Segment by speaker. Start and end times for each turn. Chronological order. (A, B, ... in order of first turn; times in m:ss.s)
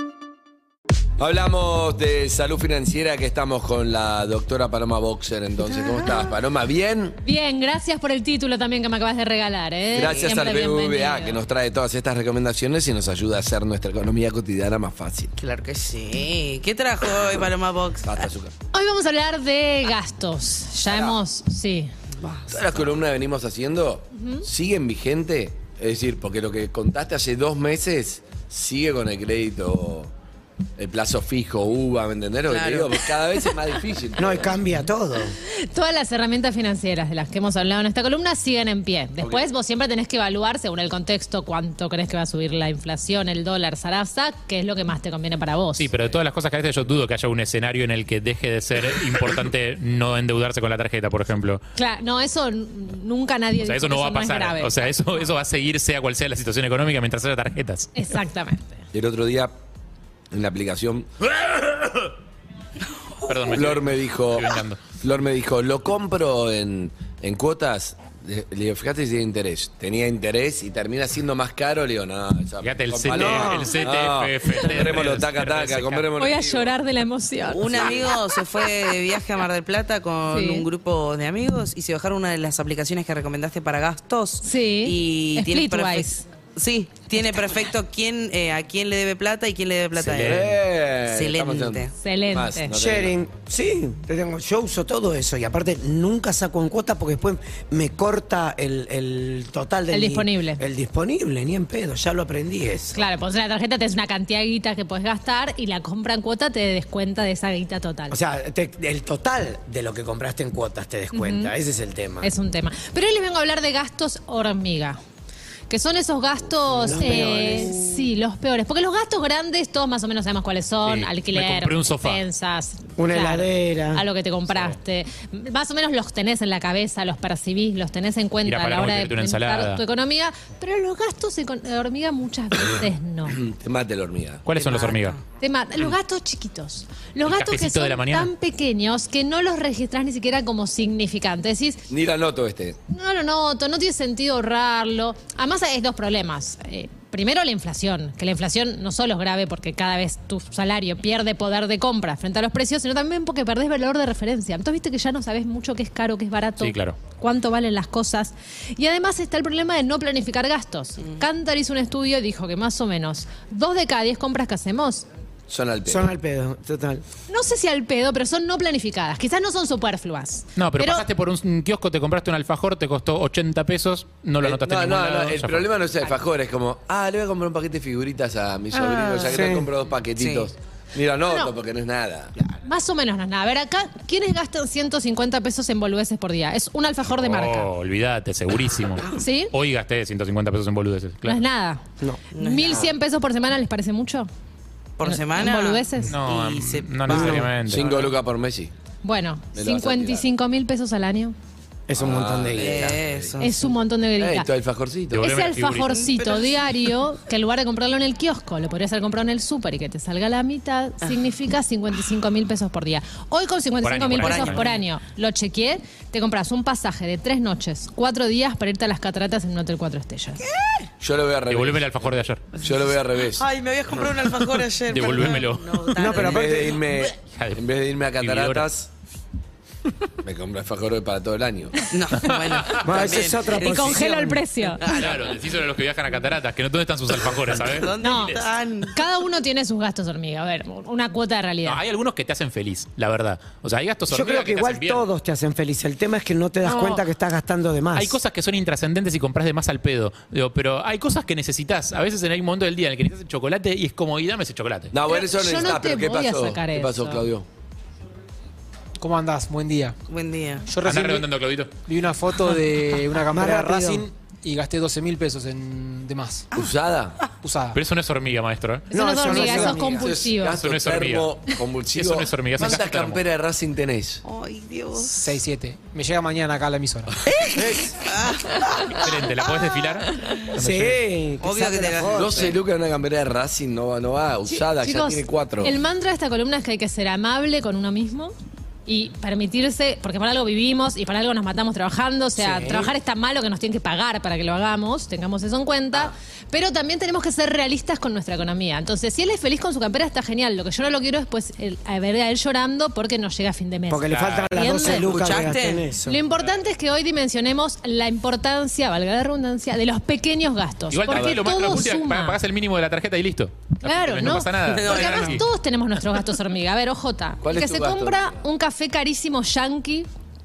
0:01.2-0:07.2 A
0:07.2-0:11.4 B
0:09.9-0:15.3 A
0:10.0-0:10.4 C
0:15.4-0:18.2 C
0:18.0-0:18.5 A
0:18.7-0:21.9 B
0:20.8-0:21.2 A
0:22.2-0:22.8 C
0:22.5-0:30.1 A
0:24.1-0:24.4 B
0:30.8-0:34.6 A
0:32.4-0:33.5 C
0:34.2-0:35.3 D
0:35.5-0:45.9 B
0:39.2-0:39.5 A
0:45.8-0:51.6 E
0:51.7-0:54.9 B
0:53.6-0:58.0 E
0:58.0-0:58.7 B
0:58.9-0:59.5 A
1:00.3-1:01.7 A
1:03.2-1:04.8 E
1:03.5-1:16.8 A
1:12.6-1:16.0 E
1:13.1-1:13.8 D
1:16.2-1:18.6 B
1:17.5-1:30.4 C
1:17.6-1:18.2 A
1:20.3-1:20.7 B
1:24.4-1:26.2 B
1:30.0-1:30.5 E
1:30.1-1:33.2 A
1:31.0-1:31.9 C
1:32.0-1:32.7 B
1:32.7-1:43.0 D
1:39.9-1:40.6 B
1:42.9-1:48.2 B
1:48.1-1:52.3 D
1:51.1-1:51.5 B
1:52.2-1:55.0 B
1:55.7-2:13.4 B
1:56.7-1:58.0 D
2:00.8-2:02.2 E
2:03.0-2:04.0 D
2:04.5-2:04.8 E
2:08.4-2:09.8 E
2:13.3-2:14.5 A
2:14.4-2:15.2 E
2:14.5-2:15.2 C
2:15.4-2:21.8 B
2:17.2-2:18.3 E
2:21.9-2:22.8 A
2:22.9-2:45.0 B
2:36.6-2:37.0 E
2:45.5-2:46.1 A
2:45.8-2:47.0 D
2:47.3-2:51.0 B
2:50.6-2:55.7 E
2:54.4-3:02.3 A
2:59.2-2:59.7 D
3:00.1-3:00.5 C
3:02.5-3:07.7 B
3:07.1-3:11.4 E
3:09.1-3:09.5 B
3:11.2-3:11.8 B
3:12.3-3:12.9 C
3:12.4-3:14.3 B
3:15.0-3:18.0 C
3:15.0-3:16.2 B
3:16.0-3:18.1 E
3:17.1-3:17.5 D
3:17.4-3:18.7 A
3:19.0-3:21.3 B
3:19.5-3:20.3 A
3:21.9-3:23.0 D
3:22.0-3:23.4 A
3:22.6-3:23.7 C
3:23.4-3:24.5 B
3:24.2-3:25.2 A
3:25.1-3:26.0 E
3:25.2-3:40.5 B
3:25.6-3:27.0 C
3:33.8-3:34.7 E
3:34.2-3:34.8 C
3:40.4-3:40.9 C
3:41.0-3:43.4 A
3:41.5-3:42.4 E
3:43.3-3:47.0 C
3:44.9-3:46.3 E
3:46.0-3:46.8 D
3:46.2-3:48.9 A
3:47.2-3:48.7 E
3:50.2-3:52.0 A
3:51.9-3:55.3 C
3:52.1-3:53.1 E
3:52.8-3:54.4 D
3:53.6-3:54.9 B
3:54.8-3:58.4 E
3:57.5-3:59.0 C
3:58.0-3:58.4 B
3:58.9-4:01.8 B
4:01.6-4:05.0 E
4:04.1-4:08.2 D
4:06.6-4:07.0 E
4:07.9-4:14.9 E
4:14.9-4:17.4 A
4:15.1-4:17.2 B
4:19.0-4:20.0 F
4:20.1-4:20.8 C
4:20.6-4:21.3 F
4:20.8-4:21.7 E
4:21.8-4:26.4 F
4:23.3-4:24.1 D
4:26.5-4:27.2 A
4:27.4-4:27.8 F
4:27.7-4:28.9 E
4:28.9-4:30.6 B
4:28.9-4:30.0 D
4:29.3-4:29.7 F
4:29.9-4:34.2 A
4:30.4-4:31.4 E
4:31.9-4:33.2 E
4:34.2-4:35.2 C
4:35.0-4:37.1 F
4:37.5-4:38.0 D
4:38.0-4:38.9 C
4:38.8-4:41.0 E
4:40.5-4:42.6 D
4:41.4-4:42.5 C
4:42.0-4:45.8 A
4:44.5-4:48.3 B
4:48.8-5:05.2 B
4:52.4-4:52.9 D
5:03.9-5:06.2 D
5:04.1-5:04.6 E
5:05.0-5:05.8 C
5:06.0-5:12.4 B
5:10.9-5:15.4 E
5:11.1-5:11.8 A
5:13.8-5:20.1 B
5:14.6-5:15.4 C
5:17.4-5:18.3 A